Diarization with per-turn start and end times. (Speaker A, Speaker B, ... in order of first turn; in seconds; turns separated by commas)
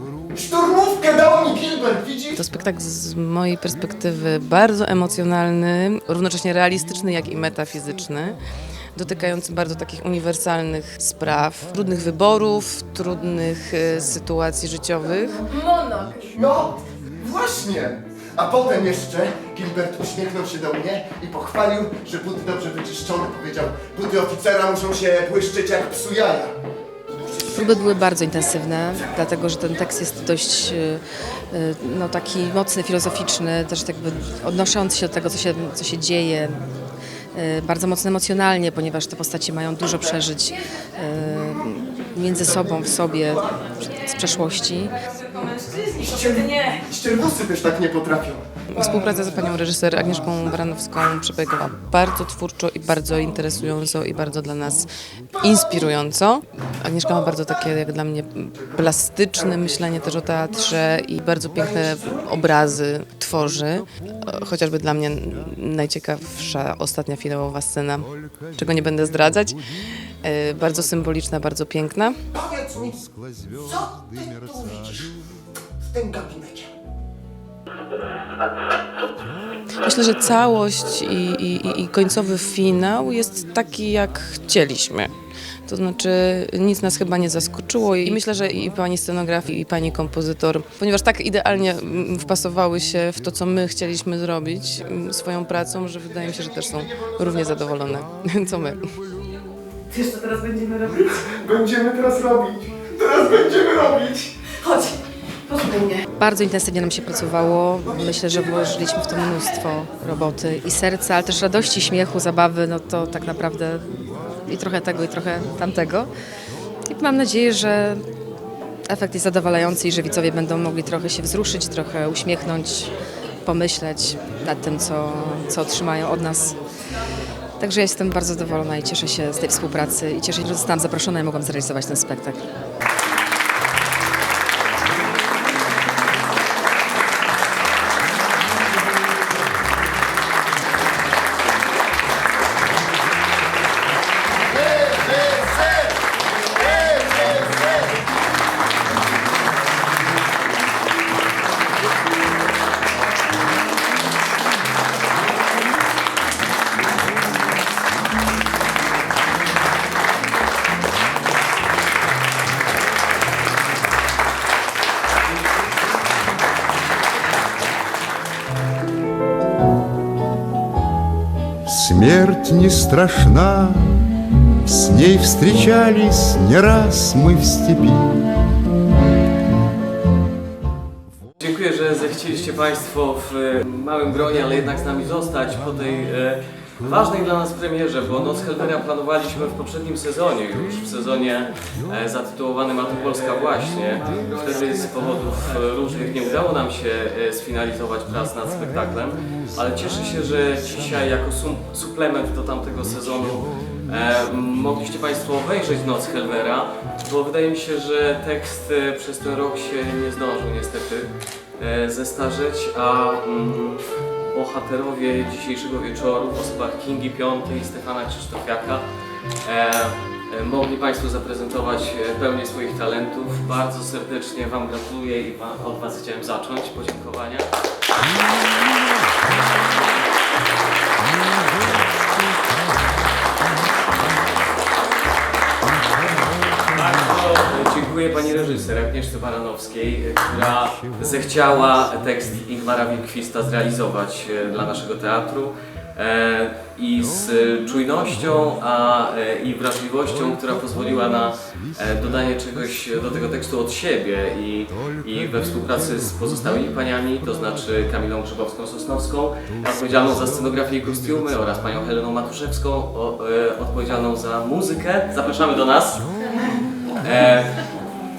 Speaker A: 0.3-2.4, Speaker B: 2.4-8.4, Speaker B: 8.9-15.9, Speaker C: 15.7-16.1, Speaker A: 16.2-26.5, Speaker A: 27.1-28.0, Speaker B: 27.5-36.6, Speaker B: 37.3-45.0, Speaker A: 42.6-43.1, Speaker C: 45.1-46.7, Speaker A: 45.9-48.9, Speaker B: 48.7-69.6, Speaker D: 64.0-64.4, Speaker B: 70.2-72.2, Speaker A: 72.3-73.0, Speaker D: 72.8-75.2, Speaker A: 73.7-75.1, Speaker A: 75.8-76.7, Speaker B: 79.8-85.1, Speaker B: 85.7-98.9, Speaker A: 96.2-97.8, Speaker C: 100.0-100.8, Speaker B: 100.1-100.5, Speaker A: 100.8-104.5, Speaker B: 106.0-113.8, Speaker A: 107.9-109.0, Speaker B: 114.5-116.1, Speaker B: 116.8-118.0, Speaker B: 118.9-122.9, Speaker B: 123.4-126.6, Speaker B: 127.6-132.4, Speaker A: 144.6-145.4, Speaker A: 146.8-147.4, Speaker D: 171.7-178.4, Speaker E: 181.4-218.8, Speaker D: 190.5-192.0, Speaker D: 192.9-196.4, Speaker D: 198.2-201.1, Speaker D: 203.1-203.7, Speaker E: 219.4-227.5, Speaker D: 228.0-229.4, Speaker D: 231.0-233.0, Speaker D: 235.6-237.3, Speaker E: 236.7-266.0, Speaker D: 238.2-238.5, Speaker D: 240.4-241.4, Speaker D: 247.0-248.5, Speaker D: 250.0-252.7, Speaker D: 254.7-258.0, Speaker D: 259.4-261.8, Speaker D: 266.0-267.1, Speaker E: 267.0-267.6